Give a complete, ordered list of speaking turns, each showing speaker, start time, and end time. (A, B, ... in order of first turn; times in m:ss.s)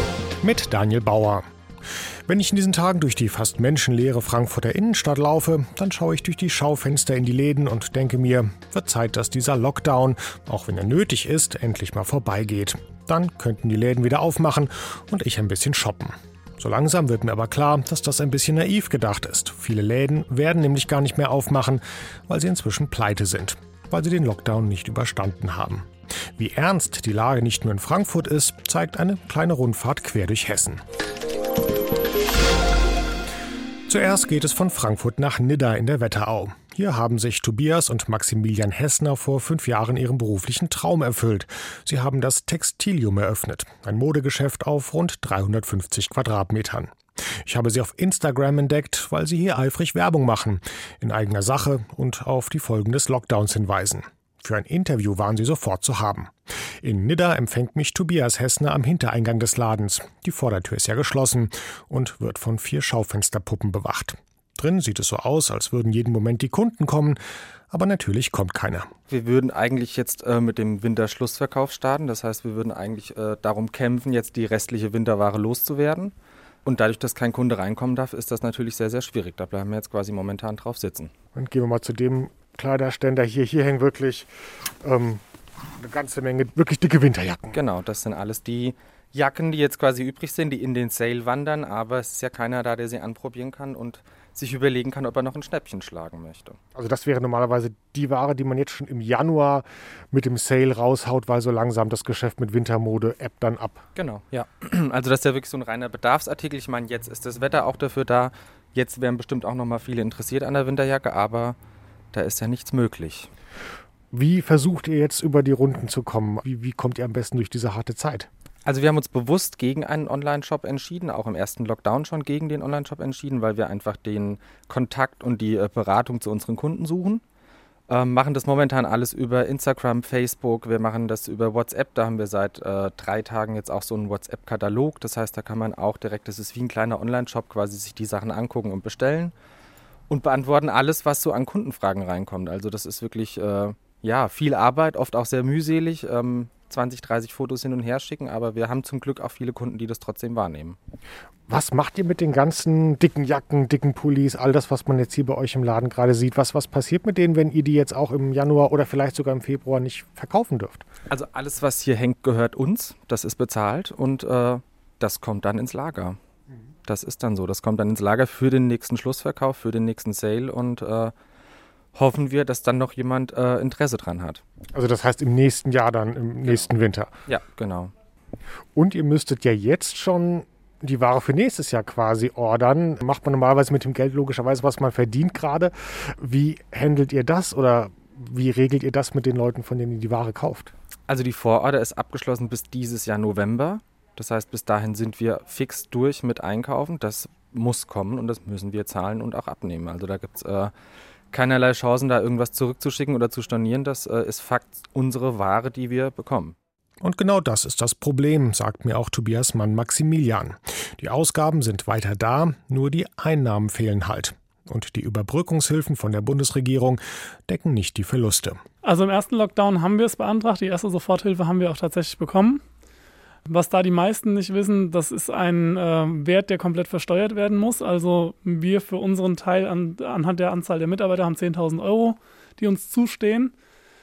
0:00.4-0:01.4 A
0:02.3-0:30.8 A
0:33.9-1:07.2 A
1:07.7-1:08.9 A
1:09.1-1:16.1 B
1:16.7-1:21.1 B
1:21.4-1:24.3 A
1:24.8-1:25.2 A
1:25.8-1:27.6 A
1:27.5-1:36.6 B
1:36.8-1:43.8 A
1:44.0-1:51.6 B
1:52.1-1:53.3 B
1:54.1-1:58.3 A
1:58.7-2:07.2 B
2:07.9-2:19.3 B
2:20.1-2:30.8 B
2:31.5-2:40.8 A
2:41.1-2:46.2 B
2:46.9-2:51.1 B
2:52.0-2:54.4 B
2:54.7-2:57.2 A
2:57.3-2:57.9 B
2:58.8-3:10.7 A
3:11.1-3:20.7 B
3:21.3-3:26.6 B
3:27.0-3:38.6 A
3:38.8-3:42.6 C
3:43.5-3:53.5 C